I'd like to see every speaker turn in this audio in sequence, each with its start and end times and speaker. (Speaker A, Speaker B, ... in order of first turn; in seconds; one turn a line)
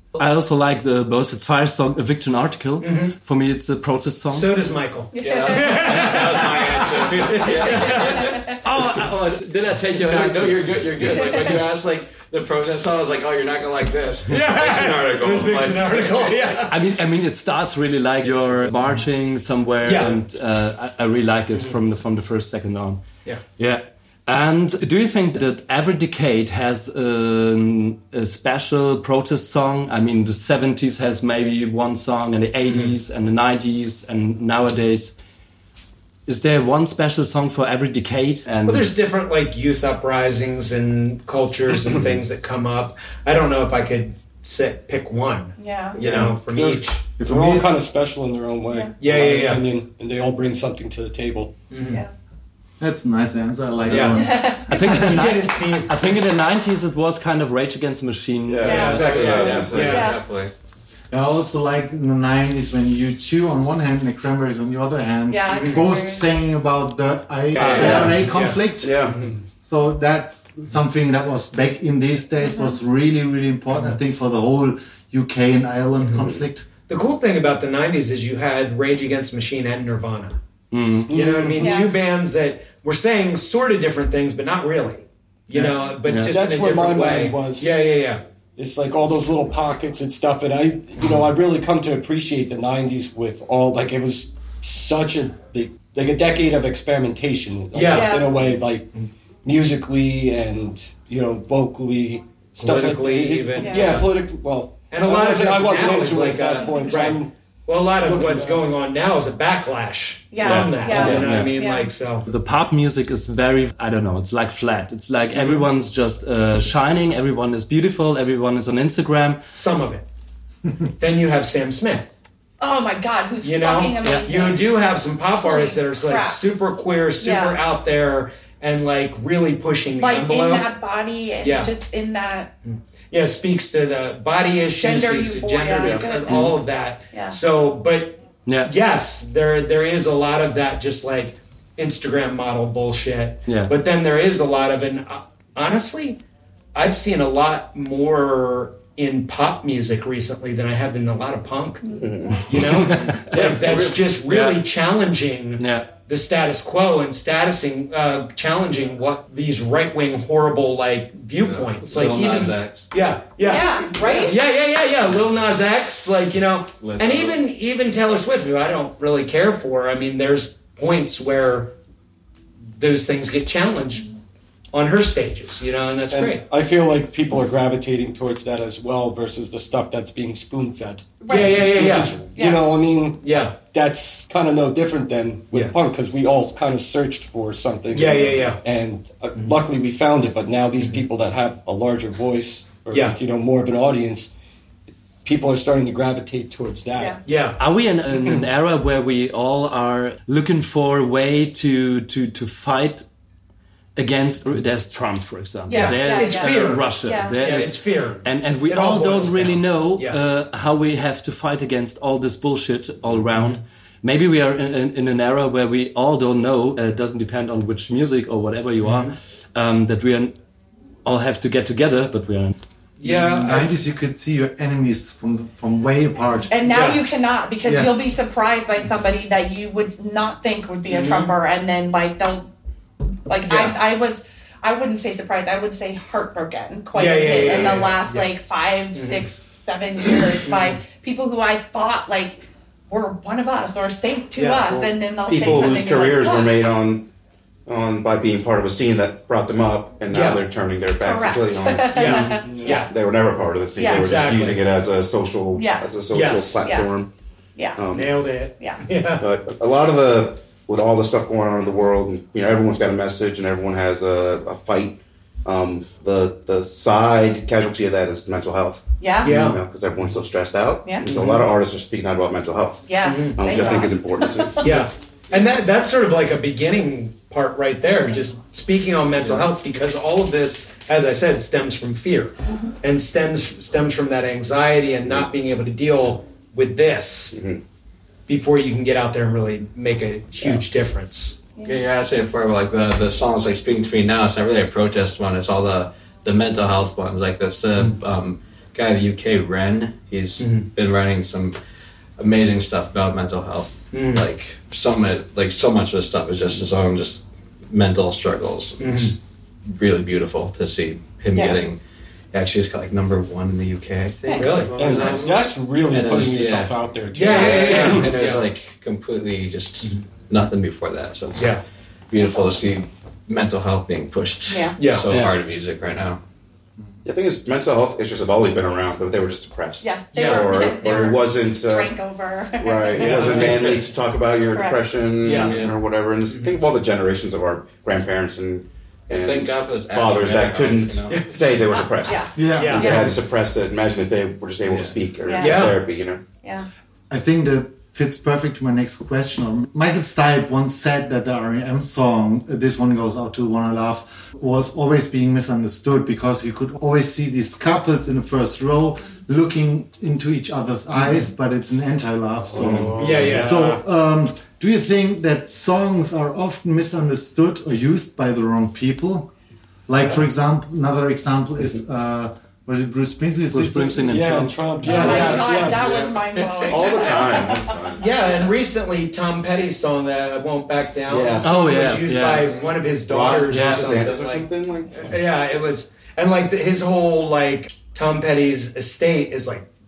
Speaker A: 0.2-4.7
Speaker B: 2.8-3.1
Speaker B: 4.3-8.5
Speaker C: 5.1-5.8
Speaker D: 5.2-9.0
Speaker A: 7.3-10.8
Speaker C: 8.1-8.4
Speaker D: 9.7-16.5
Speaker B: 14.3-16.8
Speaker A: 16.7-23.1
Speaker B: 19.8-20.2
Speaker B: 21.5-21.8
Speaker A: 23.6-35.1
Speaker B: 32.7-33.0
Speaker A: 36.3-38.9
Speaker B: 38.7-47.1
Speaker C: 45.6-46.0
Speaker E: 46.0-51.6
Speaker F: 47.2-47.7
Speaker B: 49.0-49.7
Speaker B: 51.7-52.0
Speaker F: 52.8-54.5
Speaker B: 53.9-56.0
Speaker C: 54.2-54.7
Speaker A: 54.6-59.1
Speaker G: 58.5-60.1
Speaker C: 58.6-59.2
Speaker B: 58.6-60.2
Speaker D: 59.0-60.5
Speaker C: 59.8-60.2
Speaker F: 61.1-69.1
Speaker C: 65.3-66.3
Speaker B: 65.5-65.9
Speaker B: 67.5-69.4
Speaker G: 67.8-68.2
Speaker G: 68.8-69.2
Speaker F: 69.6-76.7
Speaker C: 72.4-72.8
Speaker B: 76.0-76.2
Speaker G: 76.2-76.5
Speaker B: 76.9-80.4
Speaker A: 80.7-81.1
Speaker E: 81.1-81.8
Speaker B: 81.1-88.2
Speaker C: 81.6-81.9
Speaker E: 85.5-87.8
Speaker A: 86.0-86.4
Speaker E: 88.6-98.9
Speaker B: 97.7-98.3
Speaker C: 97.9-98.4
Speaker E: 99.4-107.3
Speaker B: 102.6-104.2
Speaker C: 103.5-104.0
Speaker B: 104.9-112.2
Speaker C: 106.6-107.1
Speaker E: 108.0-108.7
Speaker C: 110.3-111.9
Speaker A: 110.4-111.5
Speaker A: 112.3-119.5
Speaker B: 115.3-115.7
Speaker B: 119.5-120.0
Speaker B: 121.0-122.1
Speaker C: 122.6-124.7
Speaker B: 123.4-130.7
Speaker C: 125.4-126.4
Speaker C: 127.2-127.6
Speaker C: 130.0-132.5
Speaker B: 131.4-131.7
Speaker B: 132.7-146.2
Speaker C: 134.8-136.6
Speaker G: 135.8-136.1
Speaker A: 136.3-136.5
Speaker C: 137.1-137.4
Speaker A: 138.5-138.7
Speaker A: 143.5-143.7
Speaker B: 146.8-151.9
Speaker G: 151.9-152.6
Speaker B: 152.5-171.7
Speaker A: 152.7-153.6
Speaker A: 154.2-154.6
Speaker A: 155.6-155.9
Speaker D: 161.4-162.9
Speaker C: 163.4-164.4
Speaker D: 166.8-167.4
Speaker B: 172.8-174.1
Speaker B: 174.7-176.4
Speaker E: 176.1-194.3
Speaker C: 181.2-182.7
Speaker B: 181.3-182.3
Speaker B: 183.2-183.6
Speaker B: 187.9-188.6
Speaker B: 192.9-193.2
Speaker E: 195.2-197.2
Speaker B: 197.2-197.6
Speaker A: 197.6-203.1
Speaker A: 204.0-220.3
Speaker C: 205.7-207.5
Speaker B: 205.7-210.2
Speaker B: 218.8-219.2
Speaker A: 221.1-222.6
Speaker B: 223.0-223.7
Speaker F: 223.0-226.7
Speaker C: 226.5-232.5
Speaker B: 226.7-227.0
Speaker F: 227.7-227.9
Speaker B: 230.9-231.3
Speaker C: 233.3-246.5
Speaker B: 233.4-233.8
Speaker B: 236.9-238.3
Speaker G: 237.4-237.9
Speaker B: 238.9-239.3
Speaker B: 240.4-240.8
Speaker B: 244.3-244.9
Speaker G: 245.3-247.1
Speaker G: 247.7-257.1
Speaker B: 250.1-250.4
Speaker C: 251.0-252.8
Speaker B: 251.9-252.9
Speaker E: 252.3-252.8
Speaker C: 253.8-254.3
Speaker B: 253.8-254.6
Speaker C: 255.6-255.9
Speaker B: 256.1-256.7
Speaker C: 257.6-257.8
Speaker G: 257.8-258.2
Speaker B: 257.9-259.3
Speaker G: 259.2-274.8
Speaker C: 269.0-269.3
Speaker B: 269.2-269.6
Speaker B: 271.0-271.5
Speaker C: 272.9-274.6
Speaker B: 273.0-273.9
Speaker B: 274.6-287.4
Speaker G: 287.3-287.6
Speaker B: 288.3-291.4
Speaker D: 291.6-301.6
Speaker B: 300.4-300.7
Speaker D: 302.2-309.1
Speaker B: 303.9-304.3
Speaker B: 308.8-309.1
Speaker D: 309.7-311.8
Speaker C: 311.3-311.6
Speaker D: 312.3-321.6
Speaker C: 314.3-314.6
Speaker B: 314.3-315.2
Speaker E: 314.8-318.1
Speaker B: 317.1-318.5
Speaker B: 321.4-321.6
Speaker D: 322.1-326.2
Speaker C: 324.5-324.8
Speaker B: 324.8-325.1
Speaker G: 327.0-331.9
Speaker C: 329.8-333.5
Speaker B: 330.1-331.0
Speaker G: 332.6-346.2
Speaker B: 333.0-333.8
Speaker C: 334.5-334.8
Speaker B: 335.2-335.7
Speaker D: 335.3-335.8
Speaker B: 336.3-336.6
Speaker D: 339.1-341.6
Speaker B: 341.1-341.8
Speaker C: 342.1-343.1
Speaker F: 342.4-343.2
Speaker B: 342.4-343.1
Speaker D: 344.7-345.0
Speaker C: 345.2-345.7
Speaker B: 345.4-345.8
Speaker F: 347.1-369.3
Speaker B: 361.0-361.3
Speaker G: 362.5-363.4
Speaker B: 362.7-363.8
Speaker F: 369.9-374.2
Speaker A: 373.5-375.4
Speaker E: 374.1-376.2
Speaker F: 374.8-375.5
Speaker C: 374.9-377.8
Speaker G: 375.2-378.5
Speaker B: 378.0-384.4
Speaker G: 381.1-381.5
Speaker A: 381.4-382.6
Speaker G: 383.1-385.6
Speaker A: 383.5-383.9
Speaker D: 383.9-384.4
Speaker B: 385.0-389.7